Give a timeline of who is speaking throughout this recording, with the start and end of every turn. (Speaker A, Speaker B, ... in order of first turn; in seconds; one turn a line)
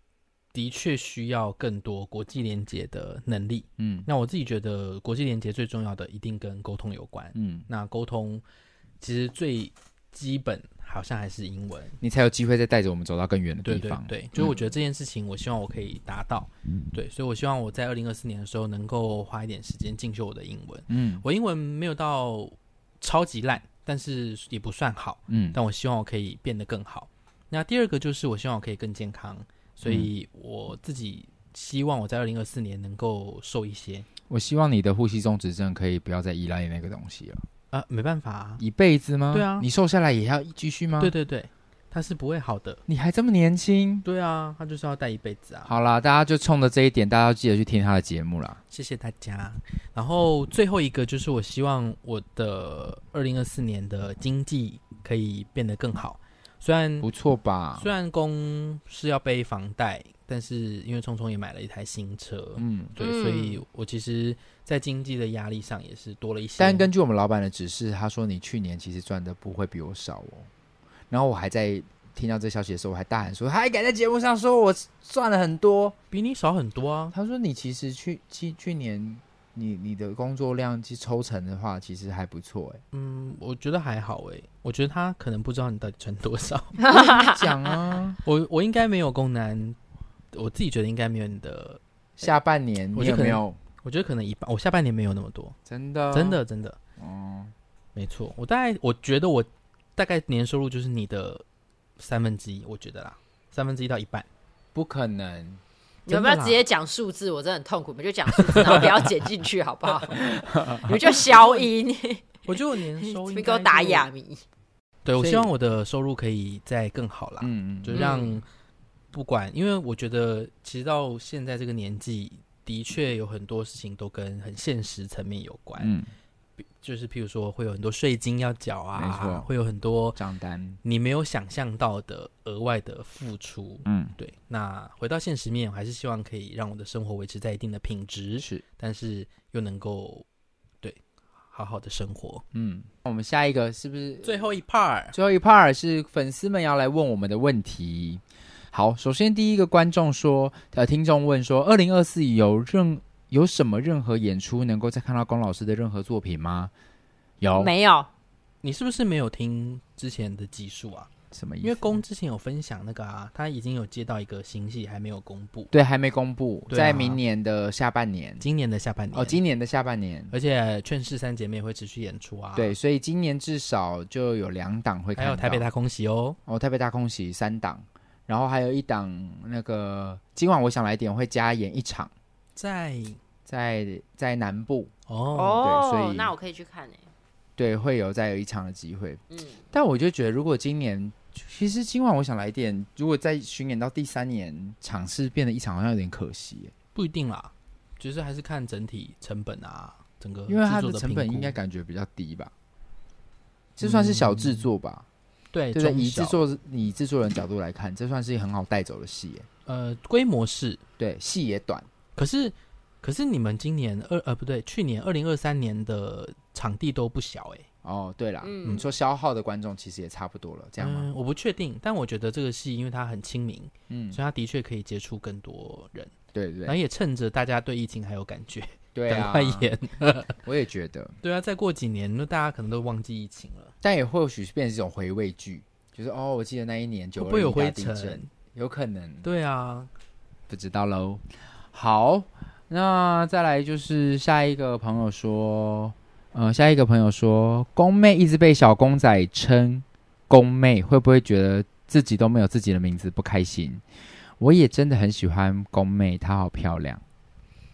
Speaker A: 0.5-8.4
Speaker B: 3.8-4.1
Speaker B: 7.3-7.7
Speaker A: 9.0-12.0
Speaker B: 12.0-14.6
Speaker A: 13.6-34.1
Speaker B: 20.9-21.2
Speaker B: 25.3-25.6
Speaker B: 29.8-30.1
Speaker B: 34.3-37.4
Speaker A: 37.7-38.6
Speaker B: 38.6-41.1
Speaker A: 39.3-39.7
Speaker A: 41.0-42.8
Speaker B: 42.9-44.0
Speaker A: 44.0-45.7
Speaker B: 45.6-48.6
Speaker A: 48.7-57.1
Speaker B: 57.0-57.9
Speaker A: 57.8-66.9
Speaker B: 62.6-62.9
Speaker C: 63.0-63.6
Speaker B: 66.6-70.5
Speaker B: 71.1-75.9
Speaker A: 76.1-77.1
Speaker B: 77.1-82.8
Speaker A: 82.9-86.8
Speaker C: 86.8-87.5
Speaker B: 86.9-88.2
Speaker A: 88.2-89.8
Speaker A: 90.3-92.2
Speaker B: 92.2-93.6
Speaker A: 93.0-95.5
Speaker B: 95.7-96.4
Speaker A: 96.1-96.8
Speaker B: 97.0-97.5
Speaker A: 97.9-101.4
Speaker A: 102.0-104.2
Speaker B: 104.7-105.6
Speaker A: 106.1-106.6
Speaker C: 106.1-114.4
Speaker A: 108.3-109.0
Speaker B: 110.2-110.9
Speaker A: 111.0-111.7
Speaker A: 112.5-114.1
Speaker A: 115.0-118.4
Speaker B: 115.2-115.5
Speaker B: 117.4-118.1
Speaker C: 117.9-118.4
Speaker A: 119.1-125.9
Speaker B: 125.8-126.1
Speaker A: 126.8-130.2
Speaker B: 128.9-129.5
Speaker B: 130.2-130.8
Speaker A: 130.8-140.2
Speaker B: 133.9-134.1
Speaker B: 138.4-138.6
Speaker A: 141.5-142.4
Speaker B: 142.5-144.4
Speaker A: 144.2-145.1
Speaker B: 145.1-156.7
Speaker B: 157.4-157.7
Speaker C: 157.5-158.1
Speaker A: 158.6-161.1
Speaker B: 161.3-161.9
Speaker A: 161.6-165.7
Speaker B: 165.7-168.4
Speaker A: 166.7-167.2
Speaker A: 168.4-169.4
Speaker B: 169.1-170.3
Speaker A: 170.3-172.7
Speaker B: 172.5-175.7
Speaker A: 175.2-176.4
Speaker B: 176.5-182.1
Speaker A: 182.6-183.2
Speaker B: 183.4-184.9
Speaker A: 185.1-185.6
Speaker C: 185.3-187.1
Speaker B: 185.6-186.3
Speaker B: 187.6-196.7
Speaker C: 189.3-189.6
Speaker A: 196.9-201.6
Speaker B: 200.5-202.5
Speaker B: 203.8-205.0
Speaker A: 203.8-204.7
Speaker A: 205.5-206.4
Speaker B: 205.7-209.5
Speaker A: 209.7-210.8
Speaker B: 211.0-211.9
Speaker A: 212.2-217.7
Speaker B: 217.8-221.1
Speaker C: 218.4-218.9
Speaker A: 220.8-226.1
Speaker B: 223.9-224.2
Speaker B: 226.3-226.8
Speaker A: 226.7-230.4
Speaker B: 228.9-229.7
Speaker B: 230.4-231.2
Speaker A: 231.2-233.7
Speaker B: 233.8-239.3
Speaker A: 237.2-238.3
Speaker A: 239.2-239.9
Speaker B: 240.5-253.8
Speaker B: 254.4-257.0